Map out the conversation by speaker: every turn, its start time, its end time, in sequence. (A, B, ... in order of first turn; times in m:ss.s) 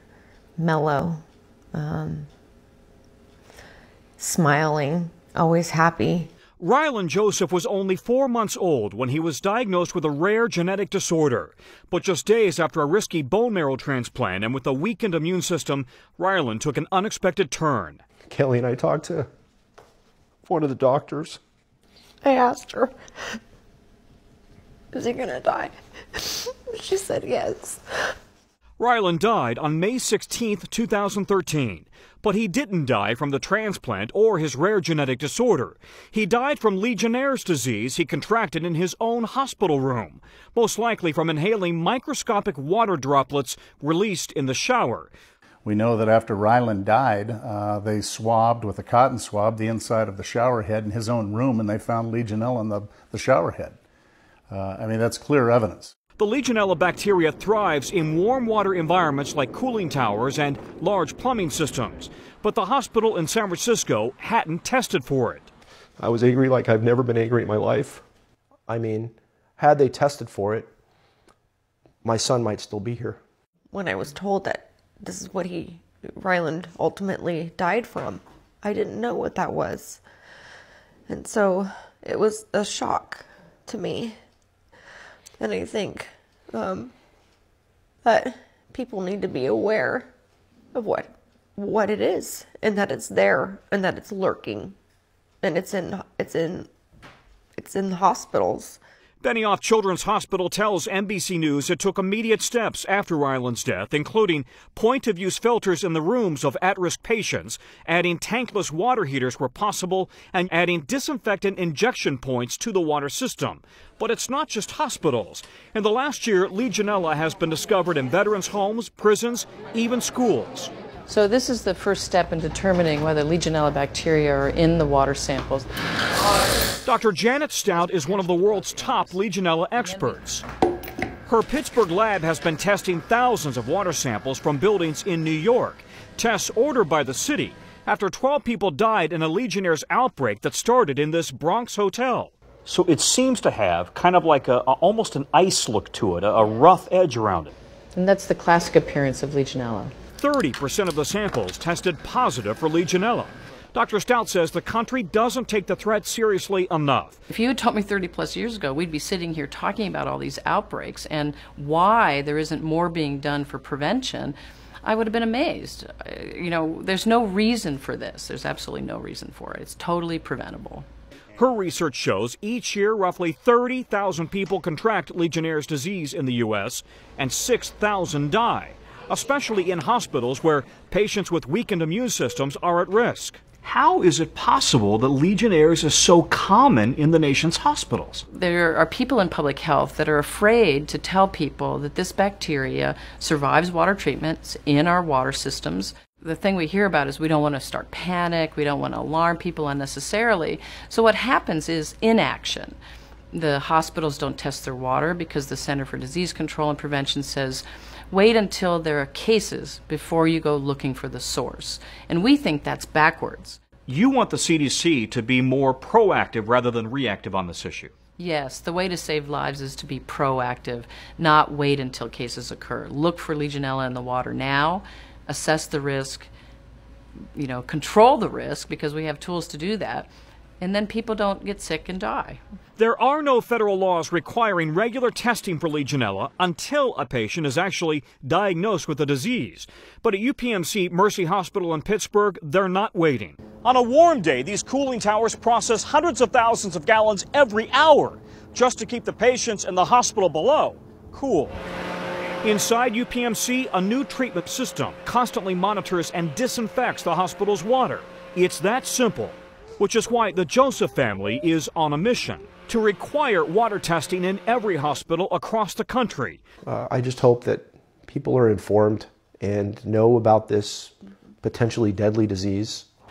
0:00.6-0:01.2 A
0:01.7-0:02.3 A
0:04.2-0:06.3 A
0:06.6-0:18.0 B
0:18.3-0:19.3 C
0:20.4-0:21.4 C
0:22.2-0:22.9 A
0:24.9-0:27.8 A
0:28.8-0:45.1 B
0:45.6-0:53.8 D
0:54.5-0:55.9 D
0:56.2-1:05.5 B
1:06.0-1:08.0 C
1:08.7-1:10.7 C
1:12.0-1:13.2 C
1:13.7-1:20.0 A
1:21.1-1:24.2 A
1:25.4-1:26.9 A
1:28.0-1:30.1 A
1:30.7-1:34.7 A
1:35.4-1:36.7 A
1:37.6-1:38.8 A
1:39.2-2:00.7 B
2:01.1-2:05.7 E
2:06.8-2:10.4 B
2:08.2-2:09.0 E
2:11.2-2:27.5 B
2:27.9-2:29.9 E
2:30.2-2:37.2 B
2:37.3-2:50.8 E
2:51.4-3:08.2 B
3:08.3-3:22.8 E
3:23.3-3:33.6 E
3:33.9-3:37.9 B
3:38.2-3:46.3 E
3:47.3-3:50.1 E
3:50.6-3:52.4 E
3:52.8-4:11.6 B
4:12.4-4:26.4 B
4:26.6-4:32.9 C